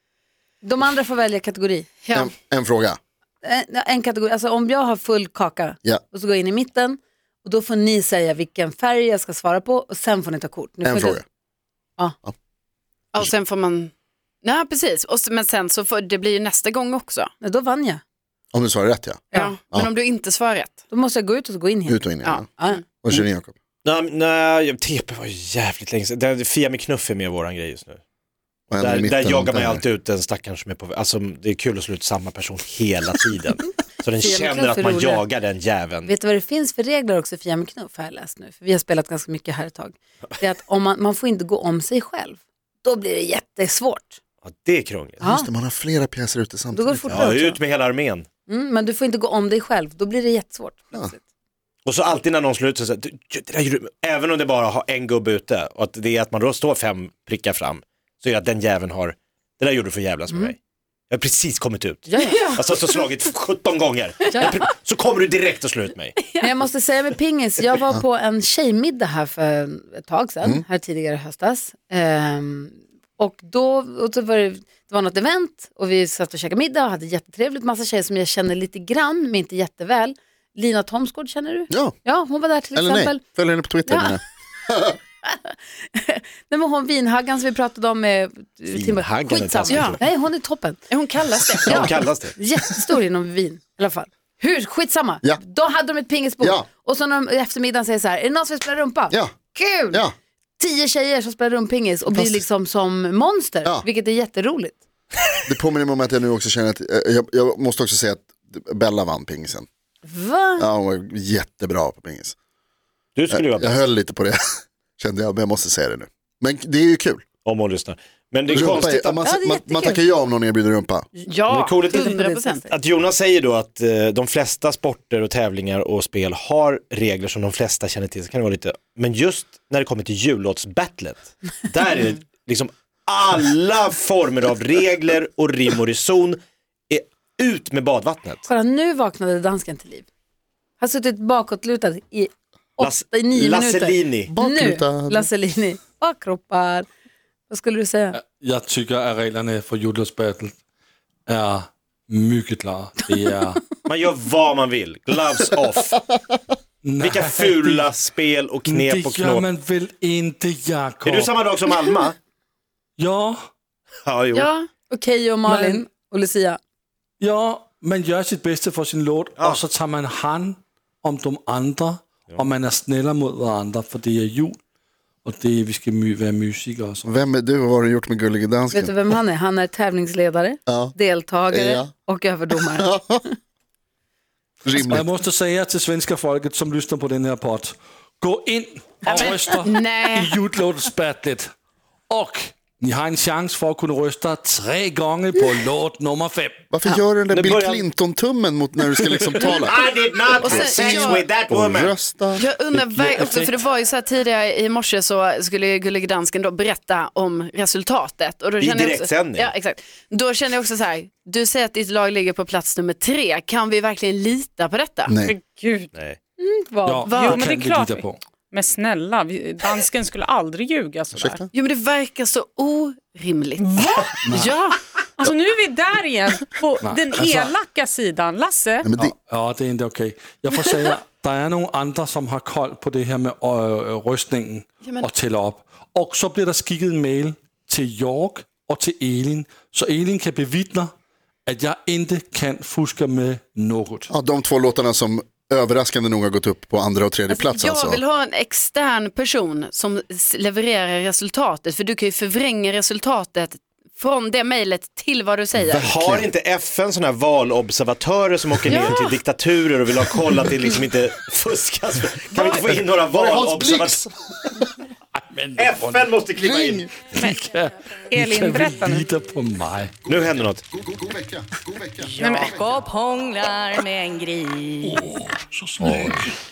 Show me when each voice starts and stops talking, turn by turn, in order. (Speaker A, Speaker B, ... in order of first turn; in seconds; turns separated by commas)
Speaker A: 0.6-2.0, Speaker B: 2.0-2.3, Speaker C: 2.1-3.0, Speaker A: 3.4-11.2, Speaker C: 10.8-11.2, Speaker B: 13.1-13.9, Speaker B: 14.4-17.3, Speaker A: 17.4-18.0, Speaker C: 18.5-19.9, Speaker B: 19.3-20.8, Speaker A: 20.9-23.2, Speaker C: 21.9-22.4, Speaker B: 22.2-22.8, Speaker C: 23.0-23.5, Speaker D: 23.8-28.0, Speaker C: 28.7-29.8, Speaker D: 28.8-36.1, Speaker A: 34.2-35.2, Speaker A: 36.0-44.2, Speaker D: 44.4-45.2, Speaker A: 45.2-45.5, Speaker C: 45.2-47.2, Speaker A: 46.7-47.6, Speaker D: 47.1-48.3, Speaker A: 48.5-51.2, Speaker D: 51.9-60.6, Speaker D: 61.1-66.2, Speaker A: 62.1-62.5, Speaker B: 62.2-63.1, Speaker B: 66.2-66.5, Speaker A: 66.4-83.2, Speaker C: 81.7-82.0, Speaker C: 82.8-84.2, Speaker A: 83.9-84.2, Speaker A: 85.2-90.8, Speaker D: 88.7-90.0, Speaker B: 89.7-90.0, Speaker B: 90.9-91.9, Speaker D: 91.7-92.3, Speaker A: 92.4-100.0, Speaker C: 96.4-96.7, Speaker C: 99.1-99.3, Speaker A: 100.6-104.8, Speaker C: 102.1-102.4, Speaker C: 105.5-109.7, Speaker A: 110.1-110.7, Speaker C: 110.6-112.3, Speaker D: 113.2-113.8, Speaker C: 113.3-114.4, Speaker C: 115.0-117.2, Speaker D: 117.5-119.2, Speaker C: 118.5-121.1, Speaker A: 119.2-120.0, Speaker A: 121.2-122.7, Speaker B: 121.3-122.6, Speaker D: 121.5-122.2, Speaker D: 122.7-136.4, Speaker D: 136.9-138.4, Speaker A: 138.5-140.1, Speaker A: 140.8-146.9, Speaker D: 142.8-144.3, Speaker C: 144.3-145.3, Speaker A: 147.5-148.2, Speaker E: 148.1-150.6, Speaker E: 151.3-153.6, Speaker D: 153.8-156.0, Speaker E: 156.8-157.9, Speaker D: 157.0-159.5, Speaker E: 158.7-161.3, Speaker D: 161.0-162.2, Speaker E: 163.0-163.4, Speaker D: 164.1-164.5, Speaker B: 164.3-164.7, Speaker A: 164.9-166.6, Speaker E: 165.5-165.8, Speaker E: 167.2-174.6, Speaker D: 169.4-169.6, Speaker E: 175.2-177.1, Speaker C: 177.0-179.1, Speaker A: 178.7-183.1, Speaker C: 180.7-181.0, Speaker C: 181.5-181.9, Speaker C: 182.7-183.2, Speaker C: 184.6-185.1, Speaker E: 184.7-191.5, Speaker B: 189.0-190.3, Speaker E: 192.1-196.7, Speaker C: 196.7-199.8, Speaker D: 197.3-197.9, Speaker E: 199.0-199.6, Speaker D: 199.7-202.1, Speaker C: 200.4-203.2, Speaker B: 200.4-201.3, Speaker B: 202.4-215.1, Speaker D: 208.6-209.5, Speaker C: 215.1-215.3, Speaker F: 215.2-215.9, Speaker A: 216.4-217.1, Speaker E: 216.9-218.2, Speaker B: 217.1-217.4, Speaker F: 217.1-221.4, Speaker C: 221.1-221.4, Speaker B: 221.5-224.8, Speaker F: 223.6-224.6, Speaker C: 224.2-224.5, Speaker F: 225.2-228.9, Speaker E: 226.8-227.5, Speaker C: 228.8-229.1, Speaker E: 229.0-240.9, Speaker B: 234.8-235.1, Speaker E: 241.5-244.1, Speaker C: 244.1-248.0, Speaker B: 247.3-255.9, Speaker C: 255.6-256.3, Speaker D: 255.8-264.0, Speaker B: 258.7-259.2, Speaker B: 262.3-262.6, Speaker C: 263.0-264.6, Speaker E: 265.1-269.9, Speaker D: 265.6-266.9, Speaker F: 267.2-267.5, Speaker F: 268.1-269.1, Speaker C: 270.1-272.8, Speaker D: 270.1-270.6, Speaker G: 272.0-275.0, Speaker F: 272.2-272.6, Speaker E: 274.8-276.3, Speaker D: 275.9-276.1